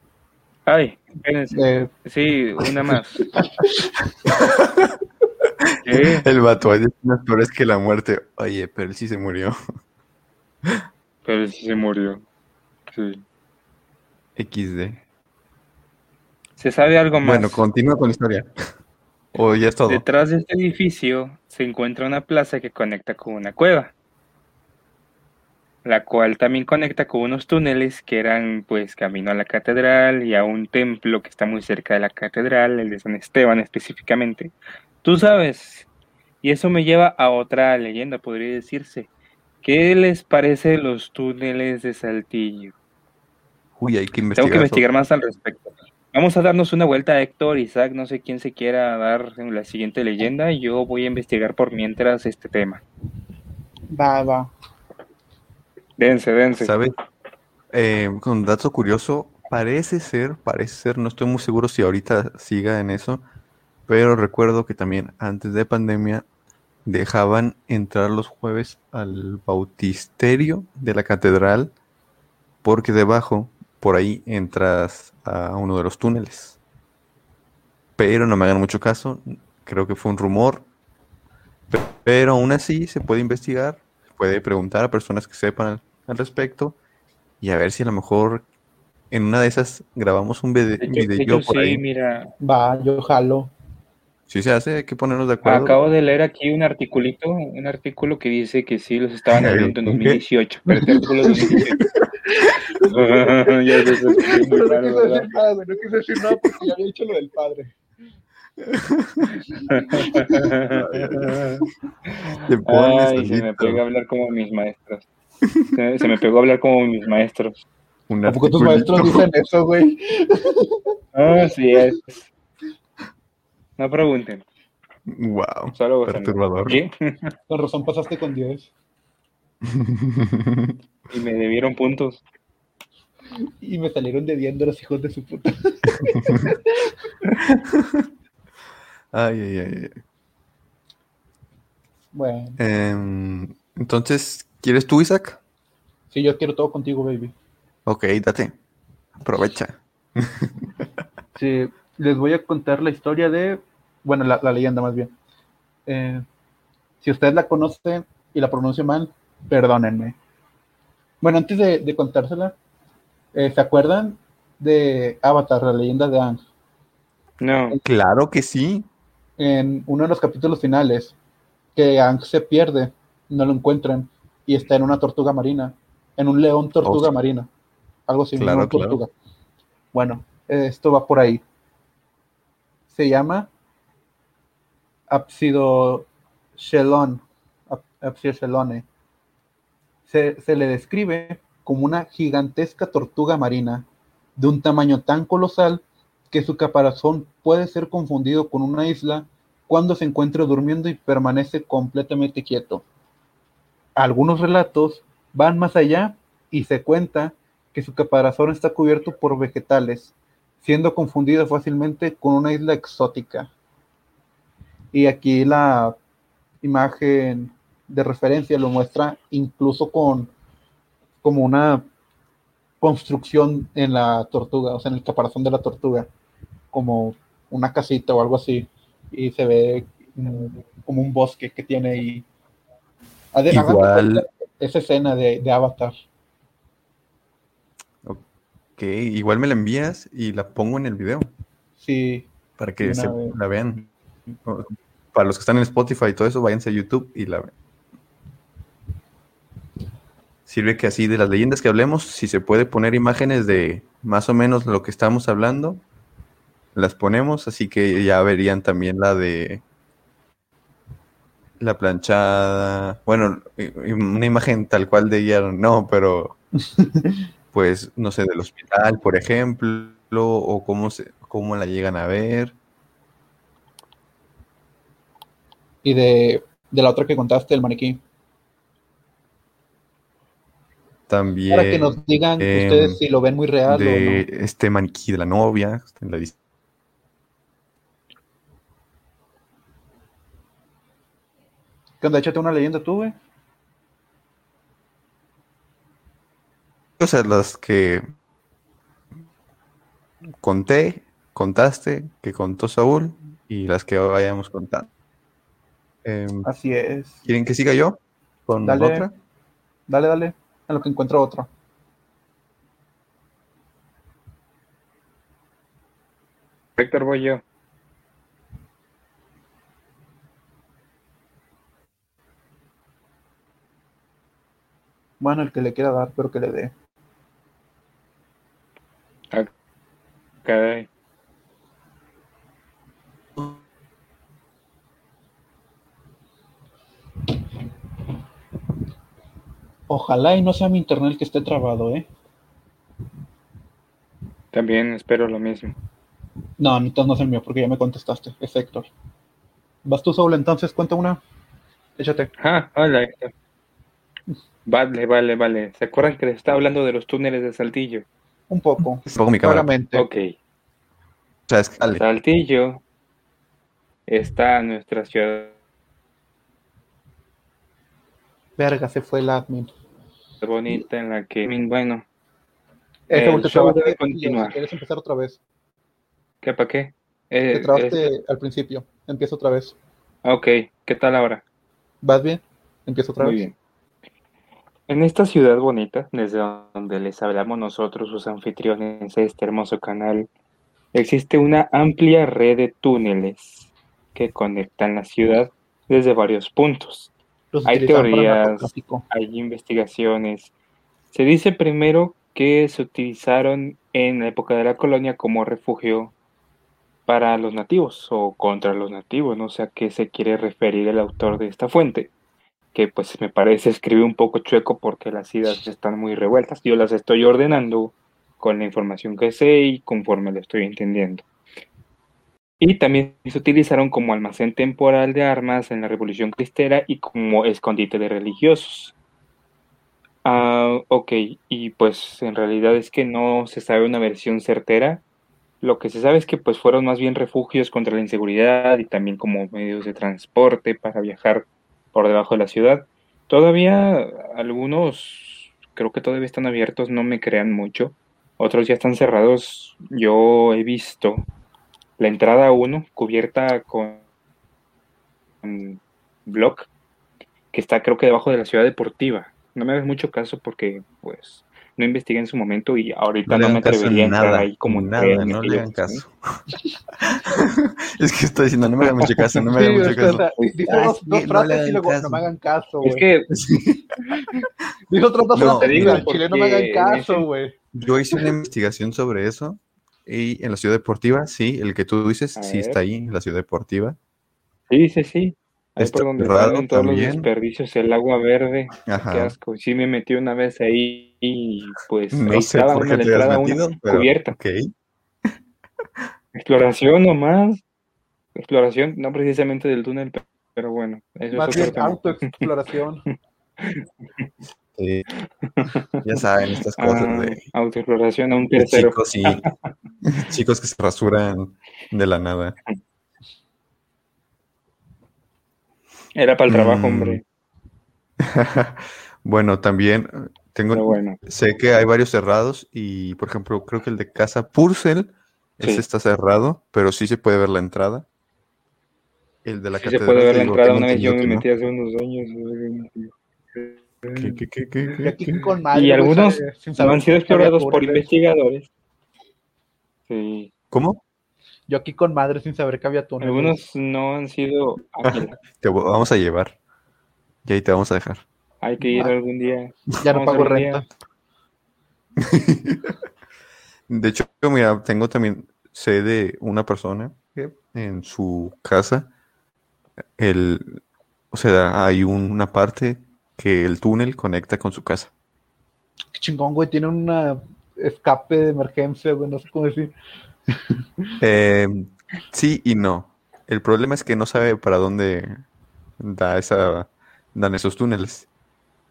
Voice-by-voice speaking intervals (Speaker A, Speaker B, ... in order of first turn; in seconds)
Speaker A: 0.7-3.3, 5.8-6.2, 11.2-12.2, 12.9-13.2, 16.6-17.6, 19.9-23.9, 25.8-35.9, 36.4-39.1, 39.6-42.7, 44.4-52.8, 56.0-56.8, 90.8-92.3, 95.5-101.8, 102.8-105.3, 109.7-115.1, 115.8-117.6, 121.2-122.2, 123.8-124.4, 125.8-127.3, 131.1-132.2, 167.4-167.8, 316.8-317.4, 330.4-330.9, 344.5-345.7, 352.4-353.3, 354.7-358.1, 359.9-360.3, 362.0-362.8, 364.1-365.5, 370.4-372.1, 373.1-374.6, 376.4-378.1, 380.2-381.4, 383.2-383.6, 384.9-390.3, 390.9-397.1, 397.7-400.5, 401.1-406.1, 407.1-412.1, 412.7-421.2, 422.6-428.9, 430.2-435.0, 435.6-451.3, 452.0-454.0, 455.4-456.7, 457.5-466.0, 472.8-473.3, 475.4-477.3, 482.4-482.8, 484.7-494.4, 496.3-497.6, 498.4-502.5, 503.6-504.3, 505.4-506.0, 506.8-509.5, 516.1-517.2, 520.7-521.2, 529.8-538.7, 540.1-540.5, 543.2-545.3, 548.6-550.9
Speaker B: 1.5-1.9, 53.9-54.5, 92.4-93.5, 100.9-101.6, 102.5-103.2, 103.8-107.8, 109.5-110.3, 118.3-120.9, 127.5-128.7, 133.6-136.9, 142.1-142.6, 146.1-147.3, 151.4-155.1, 155.9-156.2, 157.0-160.2, 161.2-162.6, 163.3-166.4, 169.4-171.2, 171.8-177.5, 178.1-179.1, 179.9-181.4, 182.9-183.5, 185.1-188.9, 190.1-193.9, 194.4-202.8, 204.0-213.5, 214.9-216.0, 216.6-220.3, 221.2-221.9, 222.8-226.1, 226.7-232.2, 233.3-235.9, 241.8-242.3, 242.8-243.3, 266.8-267.1, 275.8-278.0, 281.5-284.3, 292.0-293.1, 306.4-307.2, 308.6-309.1, 309.9-311.5, 325.2-326.7, 339.9-342.1, 346.6-348.9, 349.9-351.2, 352.0-352.3, 358.5-360.1, 368.6-369.7, 373.1-375.4, 377.5-379.8, 382.0-383.4, 397.5-399.1, 469.4-473.1, 474.1-477.6, 501.3-503.0, 535.0-538.1, 541.7-543.6, 548.8-549.1, 550.0-550.9, 566.1-569.9, 570.5-570.8
Speaker C: 4.3-4.9, 5.7-9.6, 14.4-15.0, 17.2-18.5, 19.4-20.0, 43.8-44.9, 56.6-56.9, 57.7-63.2, 63.9-66.2, 66.8-71.7, 72.6-76.6, 78.0-80.7, 81.7-86.8, 87.4-88.5, 89.1-91.8, 94.3-95.9, 99.3-100.2, 100.8-102.6, 108.7-109.3, 110.2-111.6, 112.4-113.8, 115.5-115.7, 118.1-119.3, 125.1-126.8, 129.7-130.8, 136.0-136.5, 137.4-138.1, 139.1-140.0, 142.6-145.4, 147.9-148.6, 149.2-150.5, 167.8-168.9, 176.8-177.1, 178.4-179.0, 233.5-234.3, 238.8-241.3, 242.6-247.5, 250.5-255.8, 256.8-259.6, 261.6-266.4, 267.5-272.6, 281.1-283.0, 283.7-286.4, 297.0-298.1, 300.4-304.9, 306.1-306.5, 307.2-309.1, 359.0-359.7, 361.5-362.0, 463.3-466.1, 467.0-472.2, 473.3-473.9, 475.3-476.1, 477.7-484.0, 485.8-487.3, 488.9-489.3, 492.1-494.7, 504.8-505.1, 506.0-507.4, 508.6-509.4, 510.0-512.6, 516.5-517.2, 518.2-528.1, 529.4-531.5, 534.1-535.2, 540.7-541.0, 545.1-546.6, 547.5-548.2, 552.2-552.9, 553.9-559.1, 560.2-565.1, 571.2-575.4, 576.0-578.3